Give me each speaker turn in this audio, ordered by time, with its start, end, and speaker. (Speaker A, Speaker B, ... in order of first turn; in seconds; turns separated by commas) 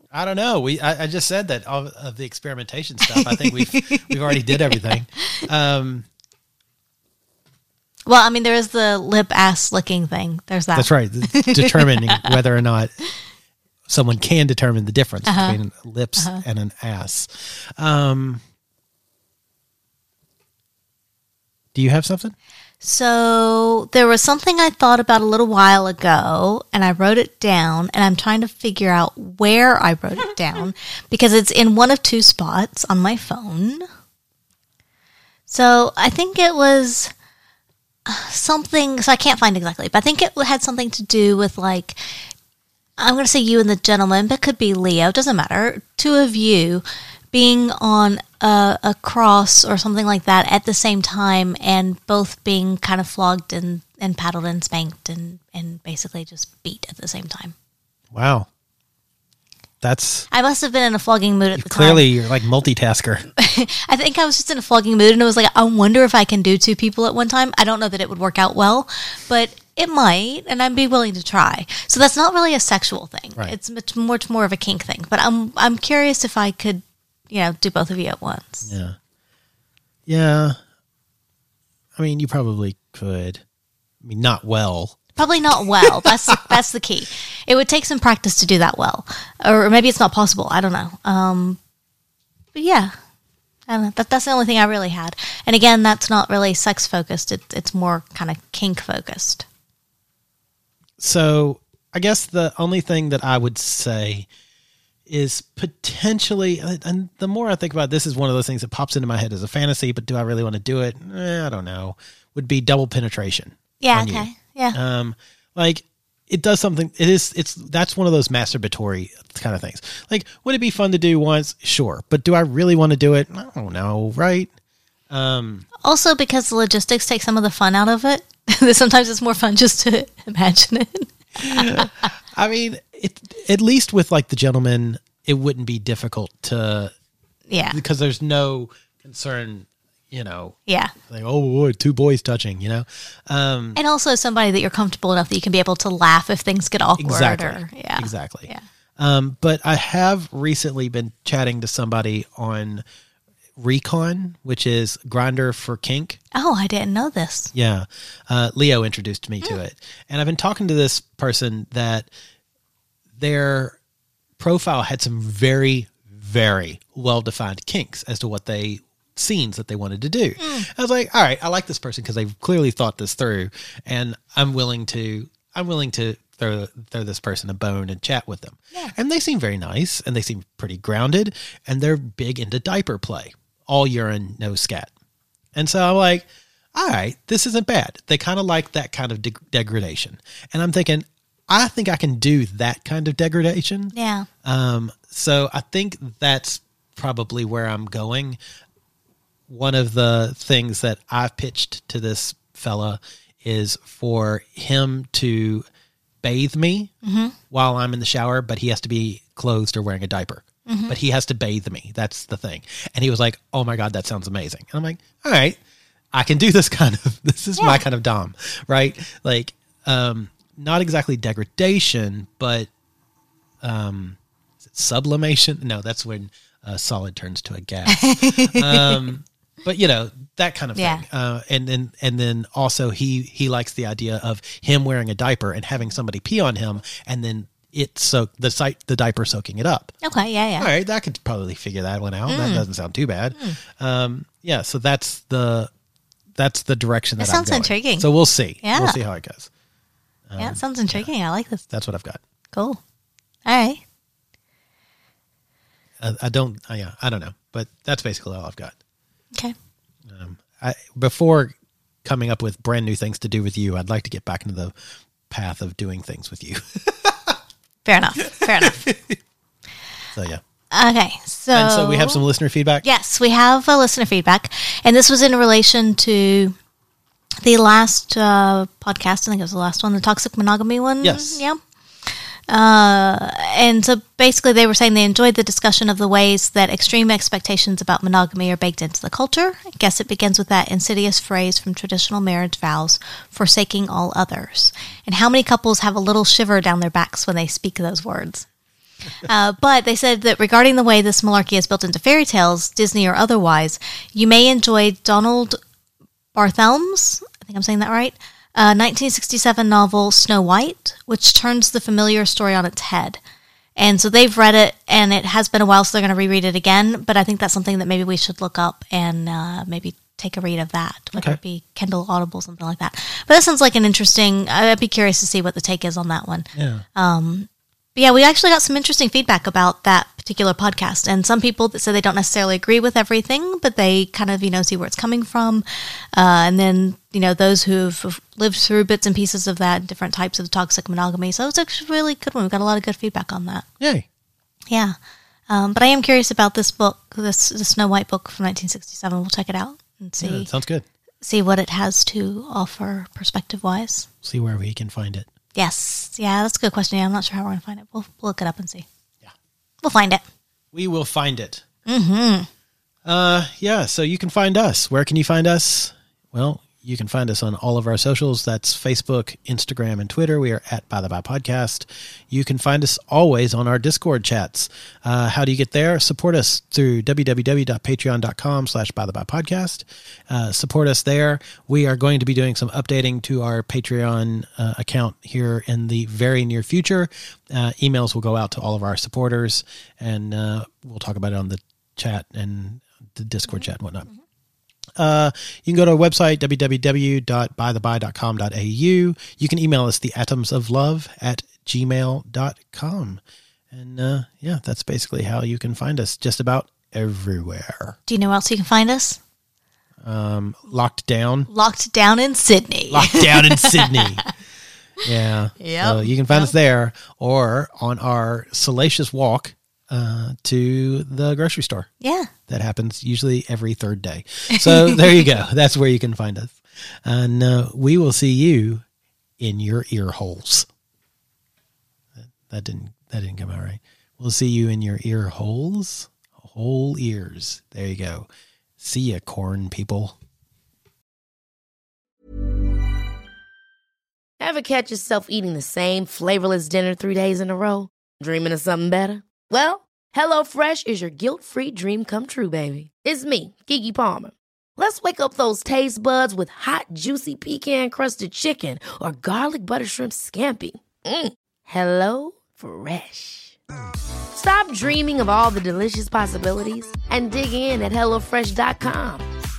Speaker A: 0.1-6.0, Speaker B: 3.1-5.4, Speaker B: 8.1-12.3, Speaker A: 10.7-12.9, Speaker A: 13.9-18.4, Speaker B: 15.2-15.6, Speaker A: 21.7-22.3, Speaker B: 22.8-33.8, Speaker B: 35.5-37.1, Speaker B: 38.0-42.0, Speaker B: 43.0-57.5, Speaker A: 58.1-58.5, Speaker A: 59.8-60.3, Speaker B: 60.3-62.1, Speaker A: 61.5-63.3, Speaker B: 63.4-78.7, Speaker A: 78.6-79.0, Speaker A: 80.1-80.6, Speaker A: 82.0-83.4, Speaker A: 84.0-85.0, Speaker B: 85.2-91.6, Speaker B: 92.5-92.9, Speaker B: 93.7-99.4, Speaker A: 101.0-104.3, Speaker A: 105.1-124.5, Speaker B: 113.8-114.8, Speaker A: 125.1-125.7, Speaker B: 125.8-131.9, Speaker A: 131.4-136.9, Speaker B: 137.5-137.8, Speaker A: 137.7-143.8, Speaker B: 140.7-140.9, Speaker B: 143.8-148.6, Speaker A: 147.0-152.8, Speaker A: 153.6-156.2, Speaker B: 156.3-157.5, Speaker A: 157.5-162.1, Speaker A: 163.2-163.8, Speaker A: 164.4-184.9, Speaker B: 170.4-170.7, Speaker A: 185.5-193.9, Speaker B: 193.9-194.3, Speaker A: 194.4-198.4, Speaker A: 199.5-205.7, Speaker A: 206.2-206.9, Speaker B: 207.0-207.3, Speaker A: 207.5-215.6, Speaker B: 210.7-210.9, Speaker A: 216.1-222.7, Speaker B: 217.6-217.8, Speaker A: 223.6-239.9, Speaker B: 227.9-229.0, Speaker B: 230.8-231.0, Speaker B: 240.0-240.7, Speaker A: 240.6-245.7, Speaker B: 242.3-242.7, Speaker A: 246.3-249.5, Speaker B: 247.2-248.1, Speaker B: 248.6-249.0, Speaker A: 250.3-251.1, Speaker B: 250.4-251.6, Speaker A: 251.7-252.2, Speaker B: 252.5-252.8, Speaker B: 253.4-253.8, Speaker A: 256.0-258.7, Speaker A: 260.1-264.7, Speaker A: 265.3-267.4, Speaker B: 267.9-268.8, Speaker A: 268.2-269.1, Speaker A: 270.1-270.4, Speaker B: 270.7-272.2, Speaker A: 271.5-272.9, Speaker B: 272.8-276.5, Speaker B: 277.4-281.6, Speaker A: 281.0-281.4, Speaker B: 282.5-298.5, Speaker B: 299.2-305.6, Speaker B: 306.3-313.2, Speaker B: 313.8-343.7, Speaker A: 326.5-326.8, Speaker A: 343.8-344.1, Speaker B: 344.7-344.9, Speaker B: 345.5-350.5, Speaker A: 350.2-350.9, Speaker B: 351.2-354.1, Speaker A: 354.2-355.3, Speaker B: 355.6-358.9, Speaker B: 359.8-360.2, Speaker A: 360.7-361.6, Speaker B: 361.9-362.5, Speaker A: 363.0-394.1, Speaker A: 395.0-403.2, Speaker A: 403.7-408.0, Speaker B: 408.1-409.2, Speaker A: 410.0-411.5, Speaker B: 411.5-414.2, Speaker A: 412.9-414.2, Speaker A: 415.0-421.9, Speaker B: 415.6-416.5, Speaker B: 422.0-422.3, Speaker A: 422.5-428.8, Speaker B: 424.5-425.3, Speaker A: 429.4-430.7, Speaker A: 432.2-438.3, Speaker A: 438.8-440.1, Speaker C: 444.4-463.6, Speaker C: 464.3-469.3